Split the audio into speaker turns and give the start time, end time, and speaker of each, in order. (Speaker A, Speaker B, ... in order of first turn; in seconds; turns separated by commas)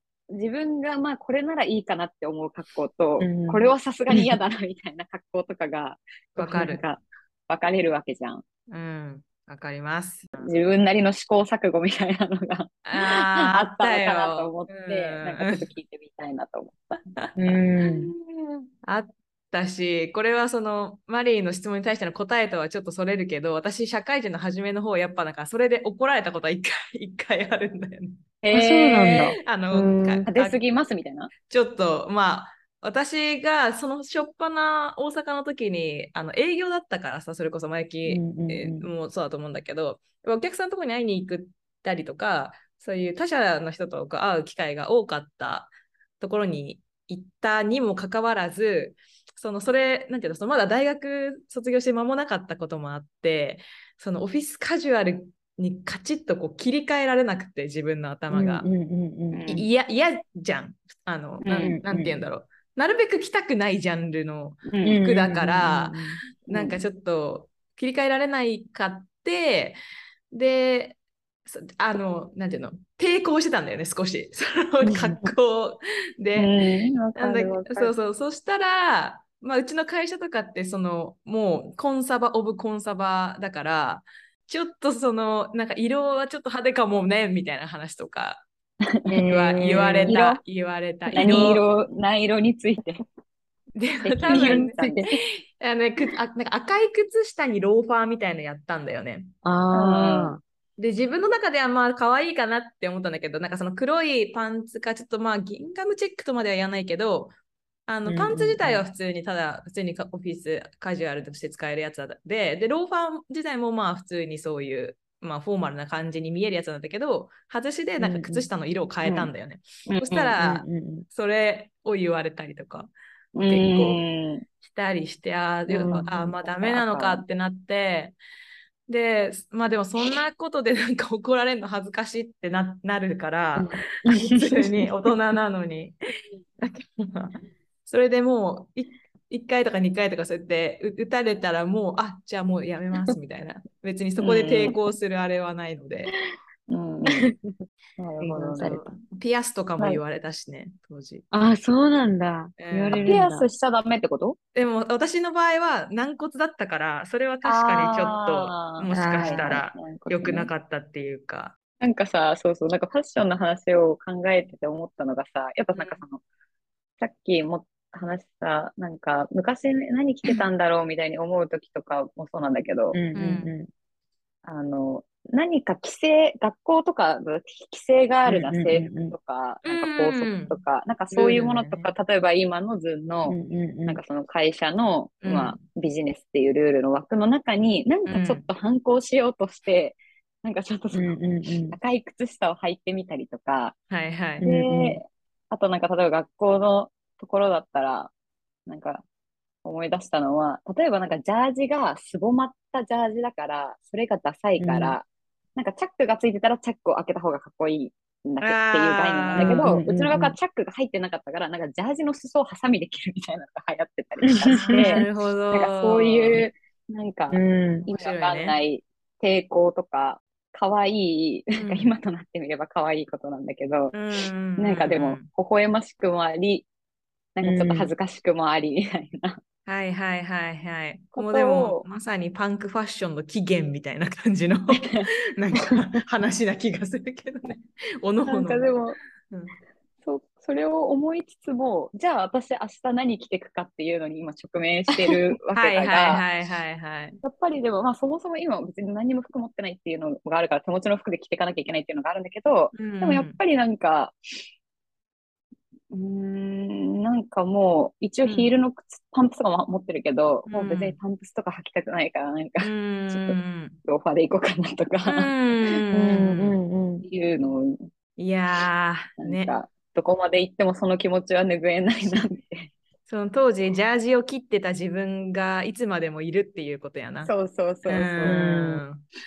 Speaker A: 0.3-8.4, Speaker B: 3.2-3.6, Speaker C: 6.4-6.8, Speaker C: 8.7-10.5, Speaker A: 10.4-16.8, Speaker C: 12.9-15.7, Speaker B: 17.4-18.1, Speaker C: 18.3-28.2, Speaker A: 28.4-29.3, Speaker B: 28.5-30.3, Speaker C: 29.0-30.6, Speaker A: 30.3-31.3, Speaker C: 31.4-58.7, Speaker B: 38.1-38.9, Speaker B: 58.3-59.4, Speaker A: 59.3-59.7, Speaker C: 59.5-69.8, Speaker A: 61.4-61.8, Speaker B: 61.6-62.2, Speaker A: 64.7-65.0, Speaker B: 64.8-66.2, Speaker A: 66.5-66.8, Speaker C: 70.3-76.5, Speaker B: 74.9-75.3, Speaker A: 76.4-77.9, Speaker C: 77.2-88.5, Speaker B: 89.1-90.2, Speaker C: 89.2-91.6, Speaker A: 90.1-90.4, Speaker B: 91.1-91.4, Speaker A: 91.2-93.0, Speaker C: 93.8-94.8, Speaker A: 94.0-95.1, Speaker B: 94.3-95.1, Speaker C: 95.6-99.3, Speaker B: 99.4-100.4, Speaker A: 99.7-100.3, Speaker C: 100.8-107.3, Speaker C: 107.9-124.0, Speaker B: 108.1-108.8, Speaker B: 118.0-118.5, Speaker A: 119.0-119.3, Speaker A: 119.9-120.4, Speaker B: 120.4-121.1, Speaker A: 123.3-124.5, Speaker C: 124.6-128.2, Speaker B: 125.7-126.3, Speaker A: 126.4-127.2, Speaker C: 128.9-135.9, Speaker B: 133.6-134.6, Speaker C: 136.6-146.1, Speaker A: 144.2-144.8, Speaker A: 146.7-147.3, Speaker B: 147.2-147.6, Speaker A: 148.0-148.9, Speaker B: 148.2-148.9, Speaker C: 148.6-151.2, Speaker B: 151.3-153.5, Speaker C: 152.6-153.2, Speaker A: 153.1-154.4, Speaker C: 154.6-161.5, Speaker A: 157.4-160.5, Speaker B: 158.9-159.6, Speaker A: 161.8-166.2, Speaker C: 165.7-166.0, Speaker A: 167.0-173.0, Speaker B: 172.9-173.7, Speaker C: 173.2-173.5, Speaker A: 174.4-183.4, Speaker B: 178.3-179.2, Speaker C: 179.7-180.6, Speaker C: 181.1-181.9, Speaker B: 183.3-184.0, Speaker A: 183.9-193.8, Speaker C: 185.2-185.6, Speaker C: 188.1-188.4, Speaker B: 190.9-191.8, Speaker C: 193.9-194.4, Speaker B: 194.4-195.0, Speaker A: 194.4-198.1, Speaker A: 198.7-199.0, Speaker A: 199.6-223.9, Speaker B: 204.6-204.9, Speaker C: 208.4-209.7, Speaker B: 209.4-210.3, Speaker B: 214.3-215.0, Speaker C: 214.5-216.4, Speaker B: 217.3-217.9, Speaker C: 217.9-218.6, Speaker C: 221.5-221.9, Speaker C: 223.9-225.2, Speaker A: 224.6-226.7, Speaker A: 227.4-229.4, Speaker B: 227.4-227.9, Speaker C: 229.7-238.8, Speaker A: 231.2-231.8, Speaker A: 234.7-235.0, Speaker A: 238.3-239.0, Speaker C: 239.3-239.6, Speaker A: 240.0-246.2, Speaker C: 245.6-247.2, Speaker A: 247.2-254.2, Speaker C: 252.7-253.4, Speaker A: 255.9-265.3, Speaker C: 258.2-258.5, Speaker C: 260.5-261.0, Speaker C: 262.6-263.8, Speaker C: 265.1-266.6, Speaker B: 265.9-267.1, Speaker A: 267.0-267.9, Speaker C: 268.2-269.6, Speaker A: 269.2-272.7, Speaker C: 273.1-277.3, Speaker A: 277.2-278.4, Speaker C: 277.9-279.0, Speaker B: 278.2-278.8